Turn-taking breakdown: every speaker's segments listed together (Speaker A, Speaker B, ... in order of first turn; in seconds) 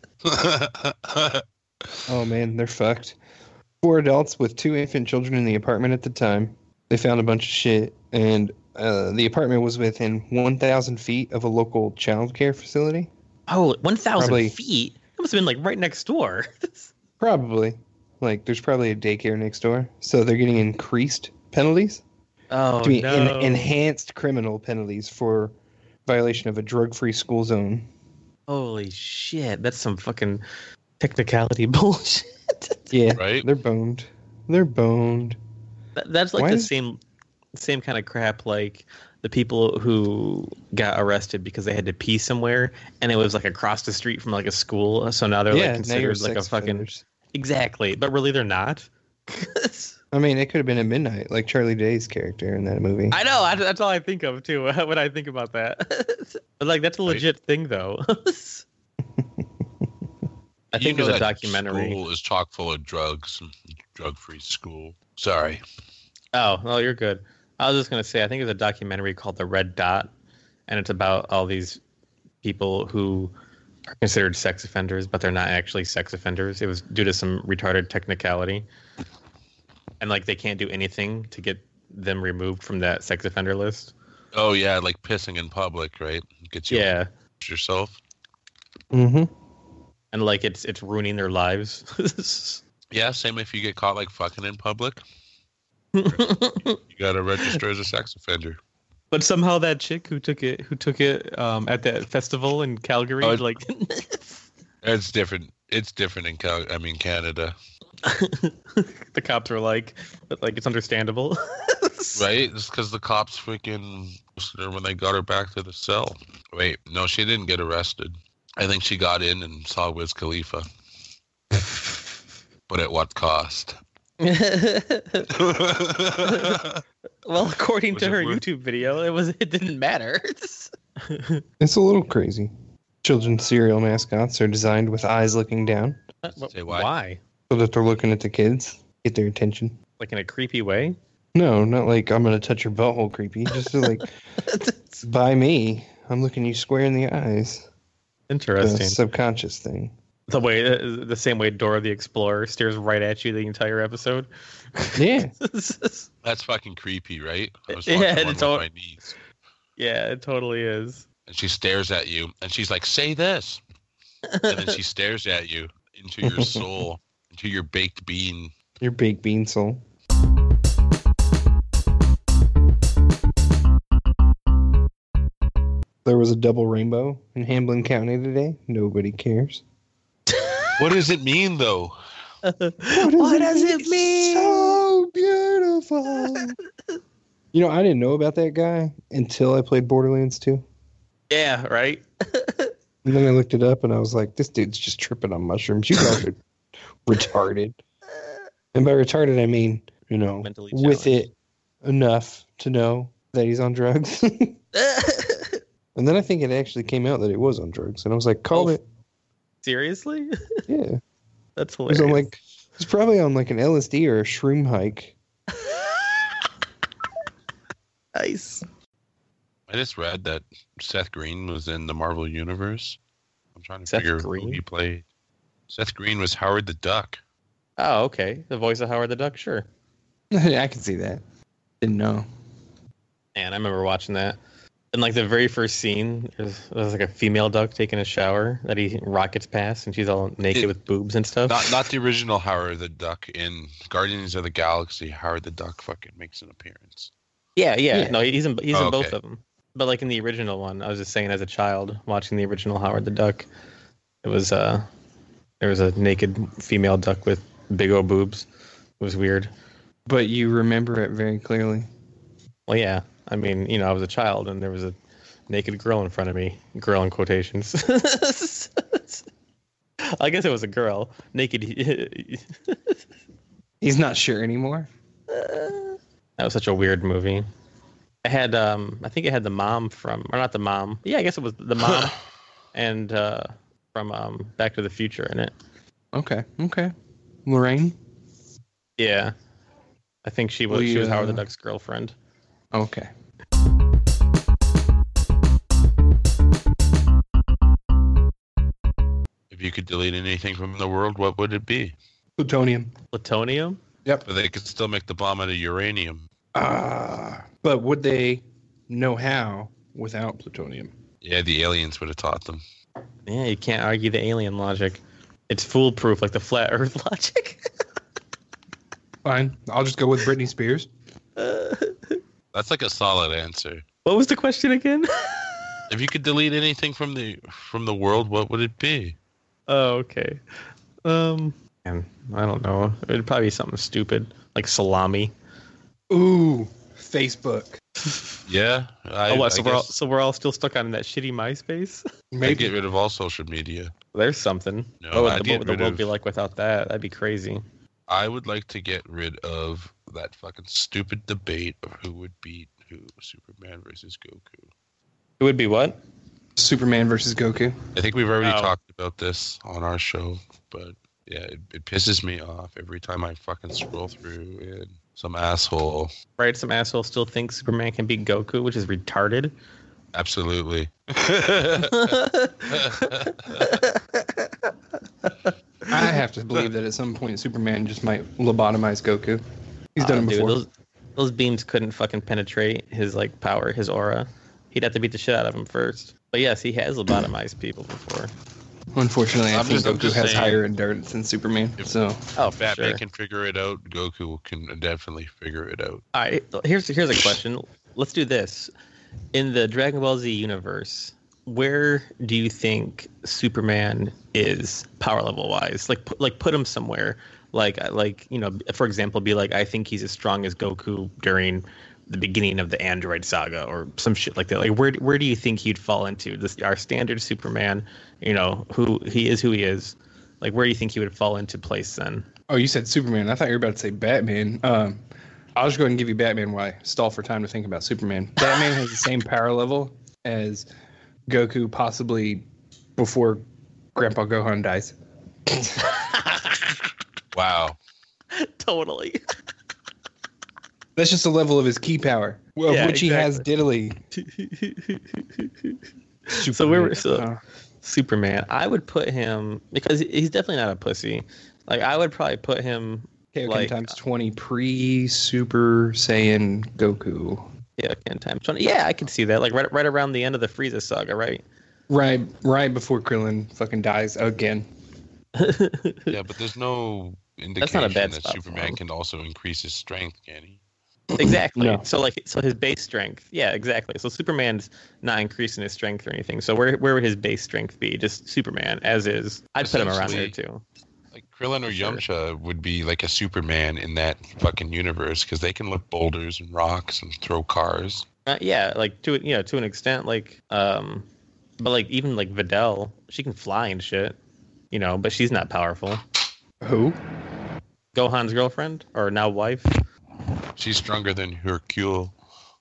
Speaker A: 0.2-1.4, 33.2-33.5, 60.7-65.6, 84.3-88.0, 92.9-95.0, 96.9-98.6, 103.2-103.6, 104.8-107.5, 112.2-120.7, 122.7-123.8, 125.3-126.8, 127.9-128.4, 136.4-136.9, 156.2-159.1, 161.3-163.6, 164.5-168.5, 180.8-182.0, 219.7-223.0, 223.6-225.1, 225.7-227.2, 241.5-247.1, 248.7-249.2, 299.5-301.9, 304.2-306.3, 311.2-312.6, 322.5-323.8, 325.9-329.2, 338.5-339.9, 342.4-343.9, 345.0-346.1, 348.1-354.7, 357.9-366.1, 370.1-373.8, 389.5-390.6, 391.8-396.0, 437.3-437.8, 466.1-470.6, 479.6-480.3, 481.1-488.1, 500.6-502.1
Speaker B: 2.1-3.2, 3.8-13.1, 14.2-14.6, 17.2-22.0, 22.8-25.5, 26.1-27.9, 32.9-35.4, 36.4-36.7, 45.5-47.0, 50.1-53.2, 88.9-89.3, 131.6-132.5, 133.0-136.0, 137.5-139.8, 141.3-144.1, 145.0-147.7, 148.6-149.9, 155.0-155.3, 168.8-169.8, 176.1-179.6, 182.9-186.6, 187.5-190.7, 193.0-196.4, 197.1-197.8, 198.7-204.6, 205.9-208.8, 210.7-211.0, 211.9-215.2, 230.3-231.2, 231.8-232.3, 247.9-248.2, 260.1-261.9, 273.8-274.9, 286.1-286.9, 287.4-288.0, 290.7-291.4, 292.7-293.1, 302.4-302.9, 306.6-310.9, 319.2-320.9, 336.1-337.8, 342.3-342.8, 356.6-357.8, 375.9-379.4, 379.9-380.6, 388.9-392.2, 422.5-425.0, 425.6-430.7, 431.3-432.4, 433.0-433.4, 433.9-436.0, 441.0-444.0, 446.4-447.4, 453.3-457.5, 461.9-464.7, 471.6-471.9, 496.6-497.0
Speaker C: 13.5-16.9, 22.5-23.7, 28.5-30.4, 31.0-32.9, 36.0-37.0, 37.6-50.0, 53.1-58.7, 60.7-62.0, 66.3-70.1, 70.7-71.8, 72.4-73.3, 73.9-78.7, 80.0-83.9, 86.7-87.1, 90.1-92.6, 95.9-96.8, 99.1-104.4, 108.0-112.2, 124.2-125.3, 126.2-126.6, 127.3-131.4, 136.2-137.2, 140.0-141.0, 144.5-145.1, 148.3-149.0, 150.3-156.1, 157.7-159.1, 159.8-161.1, 164.3-164.8, 180.3-180.7, 182.4-184.8, 191.3-192.7, 200.4-201.2, 204.8-205.6, 208.5-208.8, 209.6-210.6, 211.6-212.3, 215.5-216.2, 218.2-218.7, 223.9-224.6, 227.8-229.7, 233.3-234.4, 234.9-241.7, 247.6-253.5, 254.2-254.9, 255.6-258.5, 259.0-259.5, 262.7-264.9, 265.5-269.2, 270.0-273.0, 275.3-277.5, 278.2-282.2, 282.7-285.5, 289.0-289.3, 290.2-292.1, 303.1-303.8, 313.3-317.6, 321.4-322.2, 324.1-325.7, 329.7-330.4, 331.0-335.3, 338.1-338.4, 339.3-342.0, 344.1-347.6, 355.4-356.0, 358.4-358.7, 366.4-369.5, 371.8-374.5, 375.2-376.1, 380.0-388.3, 392.4-393.0, 396.1-398.7, 399.3-422.3, 438.3-439.2, 442.7-443.5, 444.1-447.3, 447.8-453.9, 457.8-461.4, 465.4-466.1, 467.6-468.8, 471.2-480.6, 481.7-482.0, 488.3-491.1, 491.6-494.2, 494.7-496.0, 497.9-499.8